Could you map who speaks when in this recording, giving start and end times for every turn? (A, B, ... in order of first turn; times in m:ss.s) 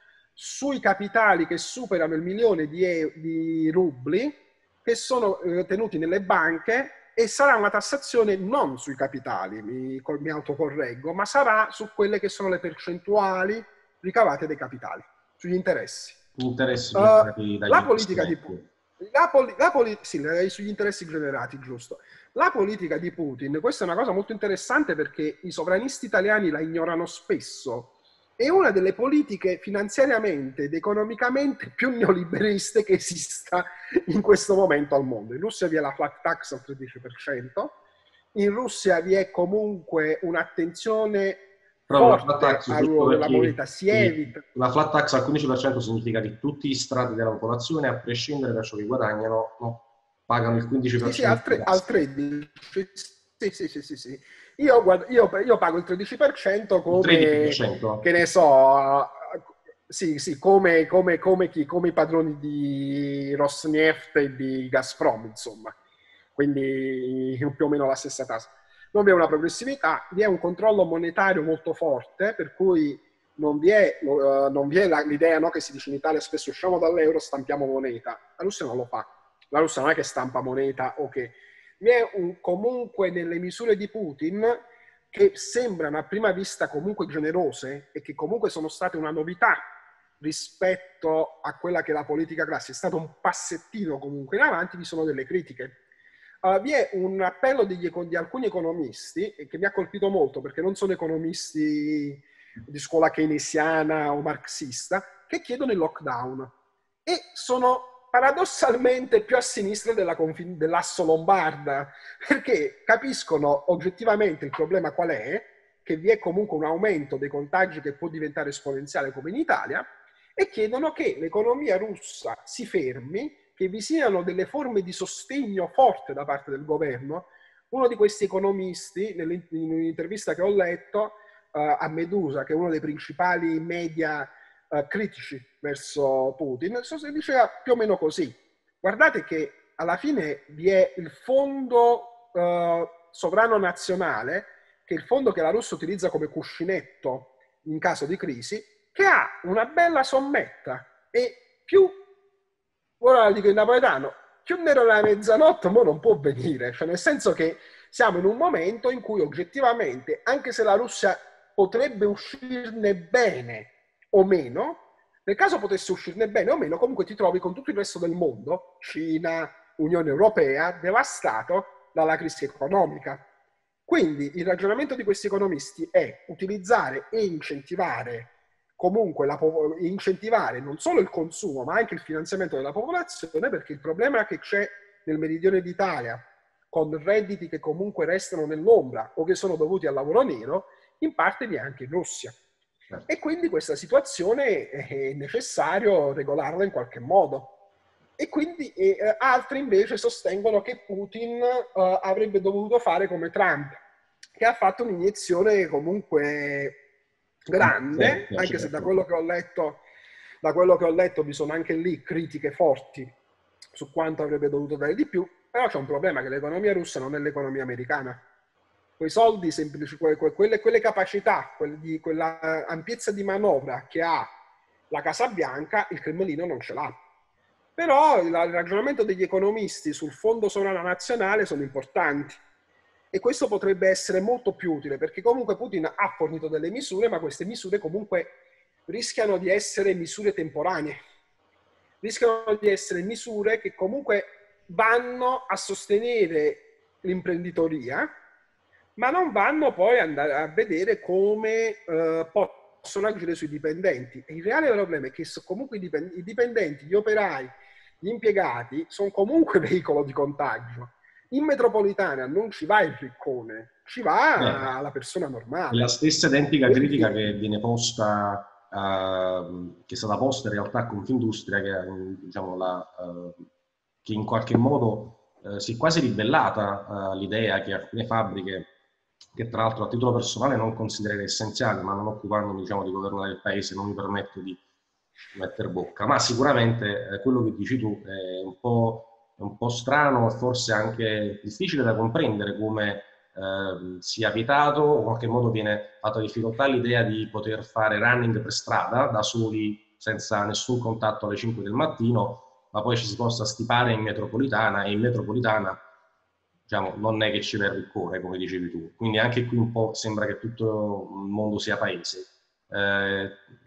0:00.4-0:16.2 A
0:16.4-0:18.7 B
0:17.0-0:37.7 A
0:38.4-0:44.4 A
0:41.9-0:51.8 B
0:51.0-1:05.7 A
0:56.9-0:58.1 B
1:06.4-1:29.6 A
1:30.2-1:35.8 A
1:36.4-1:46.5 A
1:47.1-2:32.0 A
2:33.0-2:53.2 A
2:53.9-3:12.4 A
3:13.1-3:17.5 A
3:18.2-3:23.8 A
3:24.4-3:26.8 A
3:27.5-3:29.8 A
3:27.6-3:29.0 B
3:30.4-3:33.1 A
3:33.8-3:38.2 A
3:39.0-3:44.3 A
3:44.9-3:47.0 A
3:47.8-3:52.4 A
3:53.1-3:58.3 A
3:58.9-4:01.0 A
4:02.0-4:08.1 A
4:09.0-4:25.9 A
4:24.4-4:24.7 B
4:25.7-4:33.5 B
4:26.7-4:27.3 A
4:34.0-4:38.7 B
4:39.4-4:44.6 B
4:45.4-5:05.8 B
5:06.7-5:13.4 B